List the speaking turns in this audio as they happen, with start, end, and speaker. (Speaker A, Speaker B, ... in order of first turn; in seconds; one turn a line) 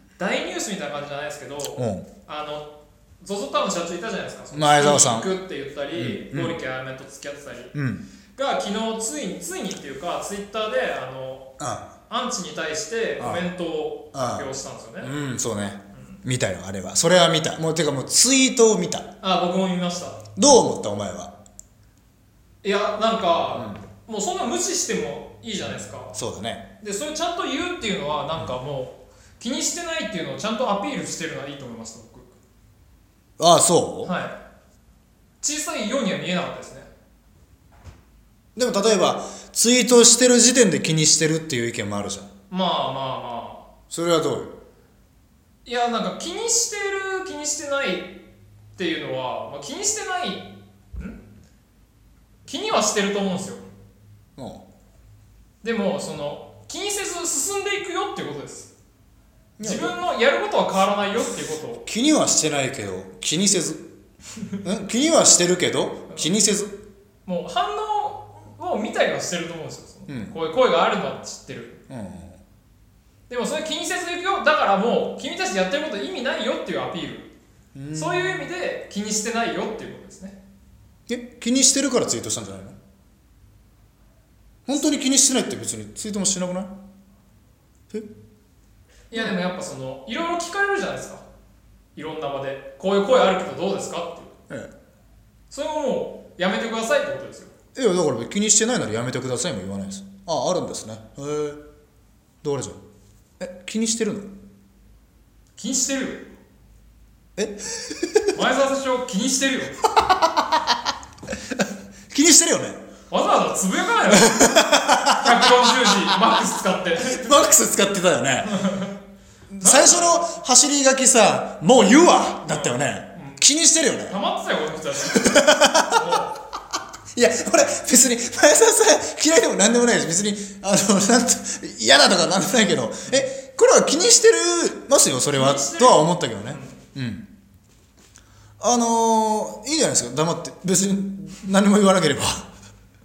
Speaker A: 0.2-7.7
Speaker B: 1.8-2.1
Speaker B: 4.5-5.4
Speaker B: 5.9-6.5
Speaker B: 7.7-8.1
Speaker A: 8.4-11.5
Speaker B: 11.6-11.9
Speaker A: 12.1-15.1
Speaker B: 13.2-13.5
Speaker B: 14.1-19.1
Speaker A: 15.9-16.2
Speaker A: 19.2-20.2
Speaker B: 20.4-21.4
Speaker A: 22.6-26.2
Speaker B: 26.1-26.7
Speaker A: 26.8-32.3
Speaker B: 33.4-34.1
Speaker A: 34.0-34.4
Speaker A: 35.4-36.9
Speaker B: 38.5-42.3
Speaker A: 42.5-43.7
Speaker B: 43.9-44.5
Speaker A: 45.6-48.2
Speaker A: 48.8-51.2
Speaker A: 52.5-53.6
Speaker B: 54.4-54.6
Speaker A: 55.6-58.7
Speaker B: 59.6-60.0
Speaker A: 59.6-61.9
Speaker B: 61.9-63.8
Speaker B: 64.6-66.8
Speaker A: 67.2-71.8
Speaker B: 70.1-70.3
Speaker B: 71.9-72.4
Speaker A: 73.3-77.3
Speaker B: 77.8-78.3
Speaker A: 77.9-80.4
Speaker B: 81.1-82.8
Speaker B: 84.7-86.7
Speaker A: 89.1-91.2
Speaker A: 92.0-94.3
Speaker A: 95.5-97.5
Speaker B: 97.8-101.6
Speaker B: 102.4-102.8
Speaker B: 103.4-104.3
Speaker A: 105.6-106.3
Speaker B: 107.4-108.4
Speaker A: 108.3-109.8
Speaker B: 110.0-110.7
Speaker B: 111.6-112.8
Speaker A: 113.1-117.3
Speaker B: 114.1-116.2
Speaker B: 117.0-118.6
Speaker A: 118.5-119.0
Speaker B: 119.5-124.2
Speaker A: 119.6-120.3
Speaker A: 122.5-123.4
Speaker A: 124.1-126.4
Speaker B: 125.1-126.0
Speaker B: 127.1-137.3
Speaker A: 135.3-136.8
Speaker B: 138.6-142.5